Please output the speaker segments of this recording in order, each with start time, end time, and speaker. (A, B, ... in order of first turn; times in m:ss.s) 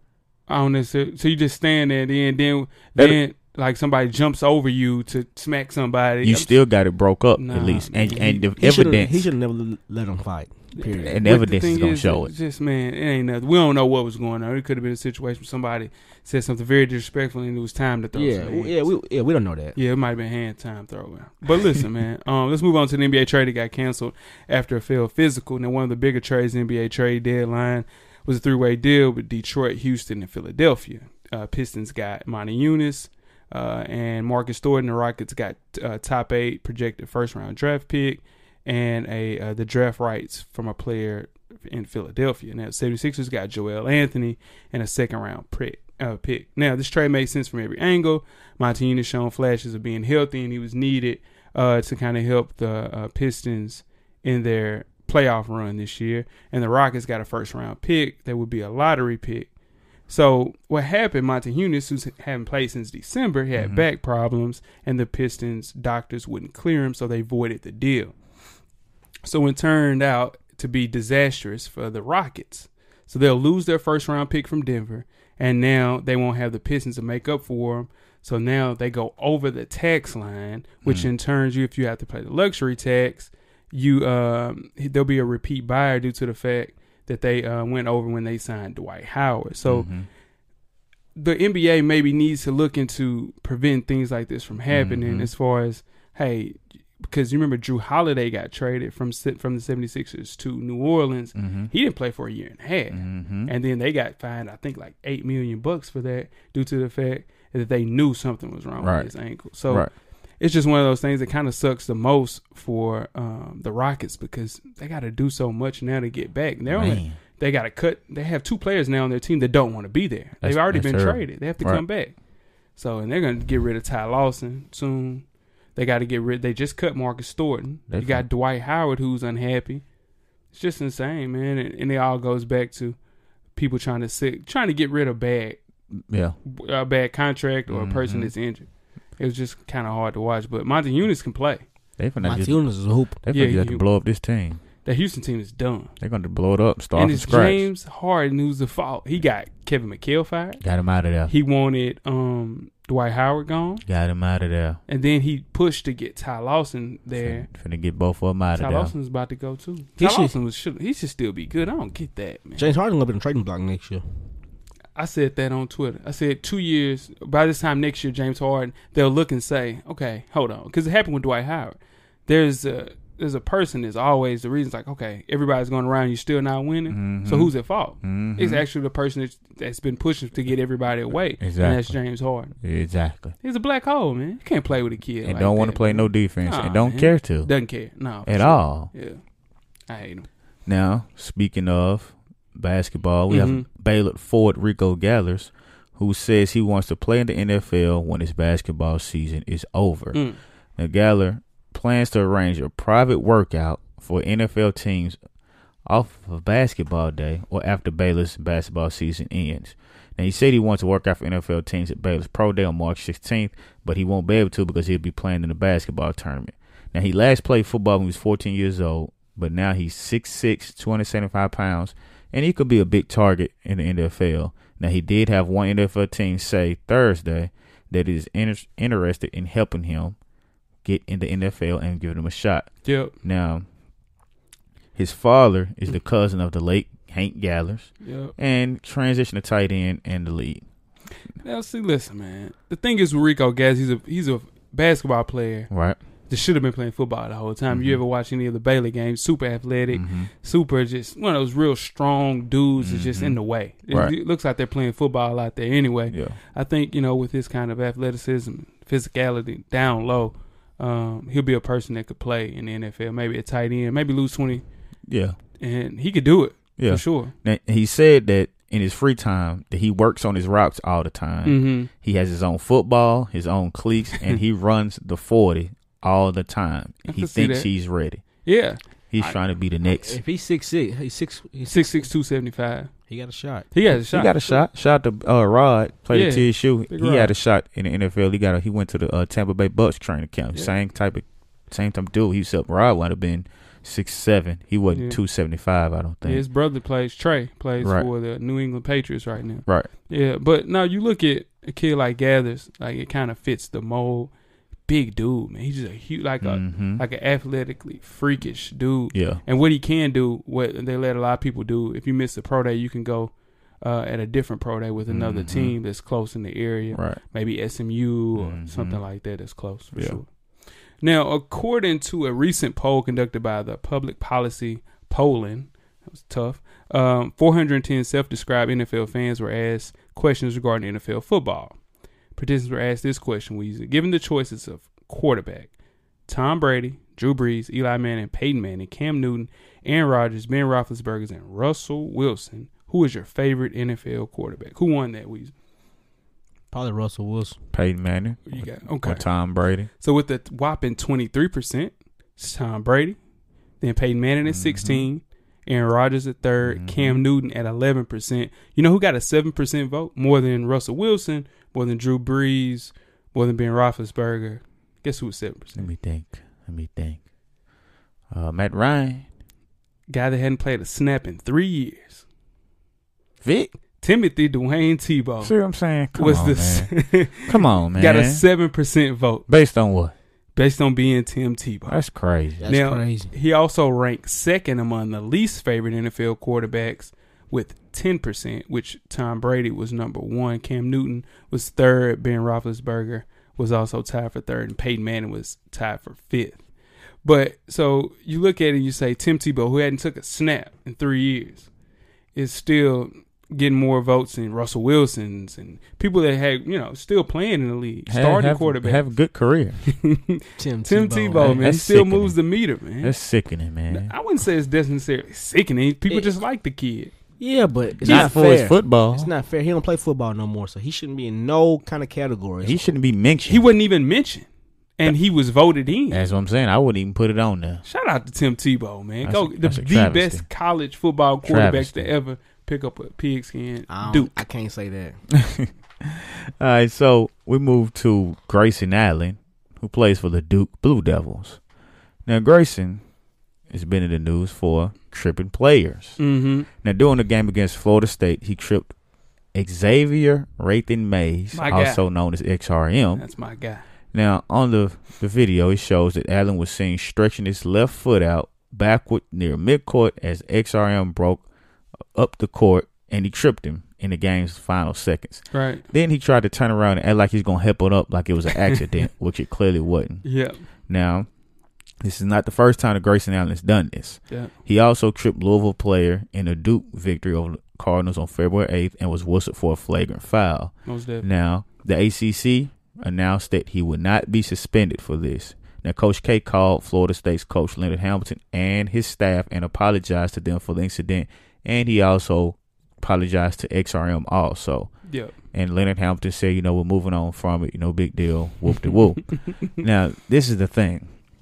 0:00.5-0:06.6 A
0:06.2-0:09.3 B
0:07.4-0:08.4 A
0:08.2-0:11.3 C
0:10.8-0:18.8 A
0:11.0-0:12.3 B
0:18.1-0:19.8 C
0:19.8-0:59.5 A
1:00.1-1:08.1 A
1:03.6-1:03.8 B
1:09.2-1:29.9 A
1:29.6-1:30.1 B
1:31.2-1:49.9 A
1:34.7-1:35.3 B
1:41.4-1:41.7 B
1:42.9-1:43.5 B
1:48.8-1:49.1 B
1:50.4-2:02.2 A
1:56.7-1:57.2 B
2:00.4-2:01.8 B
2:02.8-2:05.2 A
2:05.8-2:09.8 A
2:07.9-2:08.2 B
2:10.5-2:13.0 A
2:13.6-2:15.6 A
2:16.1-2:16.4 B
2:16.5-2:18.7 A
2:17.7-2:18.3 B
2:19.2-2:21.6 A
2:22.0-2:22.6 B
2:22.2-2:23.2 C
2:23.2-2:24.6 B
2:23.3-2:23.8 A
2:24.8-2:25.9 A
2:26.0-2:27.7 B
2:27.0-2:30.6 A
2:30.6-2:31.3 B
2:31.3-2:33.8 A
2:33.9-2:34.8 B
2:34.9-2:37.5 A
2:37.2-2:38.9 B
2:38.6-2:42.7 A
2:40.0-2:40.3 C
2:42.6-2:44.0 C
2:45.0-3:02.5 A
2:56.9-2:58.6 B
3:01.4-3:02.0 B
3:02.6-3:03.4 B
3:03.4-3:09.2 A
3:05.2-3:07.5 B
3:08.2-3:08.9 B
3:09.9-3:10.3 A
3:10.7-3:20.2 B
3:13.3-3:13.7 A
3:20.1-3:20.4 A
3:20.8-3:25.2 B
3:25.9-3:50.2 B
3:50.8-3:52.7 B
3:52.8-3:53.1 A
3:53.2-3:53.6 B
3:55.0-4:00.6 B
3:58.0-3:58.3 A
4:01.4-4:05.7 A
4:05.7-4:06.0 B
4:06.3-4:24.6 A
4:07.7-4:08.0 B
4:09.9-4:10.3 B
4:12.8-4:13.4 B
4:16.1-4:16.4 B
4:25.1-4:25.4 B
4:25.6-4:27.3 A
4:26.8-4:38.2 B
4:31.4-4:31.9 A
4:37.1-4:37.7 A
4:38.4-4:39.4 A
4:39.1-4:40.2 B
4:39.9-4:42.1 C
4:41.7-4:42.9 A
4:43.1-4:43.7 C
4:43.7-4:44.6 A
4:43.9-4:56.4 B
4:46.1-4:47.3 A
4:54.9-4:55.2 A
4:56.2-5:04.3 A
4:57.8-4:58.1 B
5:04.9-5:20.3 A
5:06.4-5:07.0 B
5:09.1-5:09.4 B
5:15.1-5:15.8 B
5:16.9-5:17.2 B
5:18.4-5:19.0 B
5:20.0-5:20.2 B
5:21.0-5:31.8 A
5:32.4-5:35.7 A
5:36.3-5:45.5 A
5:46.7-5:47.6 C
5:47.7-5:49.9 B
5:48.5-5:49.2 A
5:50.0-5:53.2 A
5:53.8-6:05.9 A
5:54.4-5:55.1 B
5:56.6-5:57.2 B
6:05.8-6:07.2 B
6:08.3-6:09.3 B
6:10.1-6:12.2 A
6:13.4-6:13.7 B
6:14.0-6:15.5 A
6:15.4-6:16.9 B
6:16.2-6:19.4 A
6:17.4-6:18.4 B
6:19.5-6:20.1 B
6:20.6-6:22.0 A
6:21.9-6:22.7 B
6:22.6-6:23.3 C
6:22.7-6:36.6 A
6:37.2-6:41.7 A
6:42.4-6:49.0 A
6:48.1-6:49.8 B
6:50.0-6:53.1 A
6:50.6-6:51.6 C
6:51.4-6:52.4 B
6:53.0-6:54.1 B
6:53.9-6:57.1 A
6:57.4-7:02.9 C
6:58.0-6:59.3 B
6:58.0-6:58.3 A
7:02.6-7:03.7 B
7:03.5-7:04.5 A
7:05.0-7:06.2 A
7:06.1-7:07.8 B
7:07.8-7:14.3 A
7:09.2-7:10.5 B
7:11.4-7:12.1 B
7:13.9-7:15.2 C
7:15.4-7:21.6 B
7:22.3-7:23.0 B
7:23.7-7:26.2 B
7:26.2-7:26.7 A
7:26.8-7:28.9 B
7:29.5-7:33.2 B
7:31.5-7:32.0 A
7:33.2-7:33.8 A
7:34.1-7:41.4 B
7:42.2-7:50.3 B
7:45.5-7:45.8 A
7:50.2-7:50.6 A
7:50.9-7:51.3 B
7:52.0-8:14.9 B
8:00.9-8:01.3 A
8:15.1-8:15.3 A
8:15.5-8:21.1 B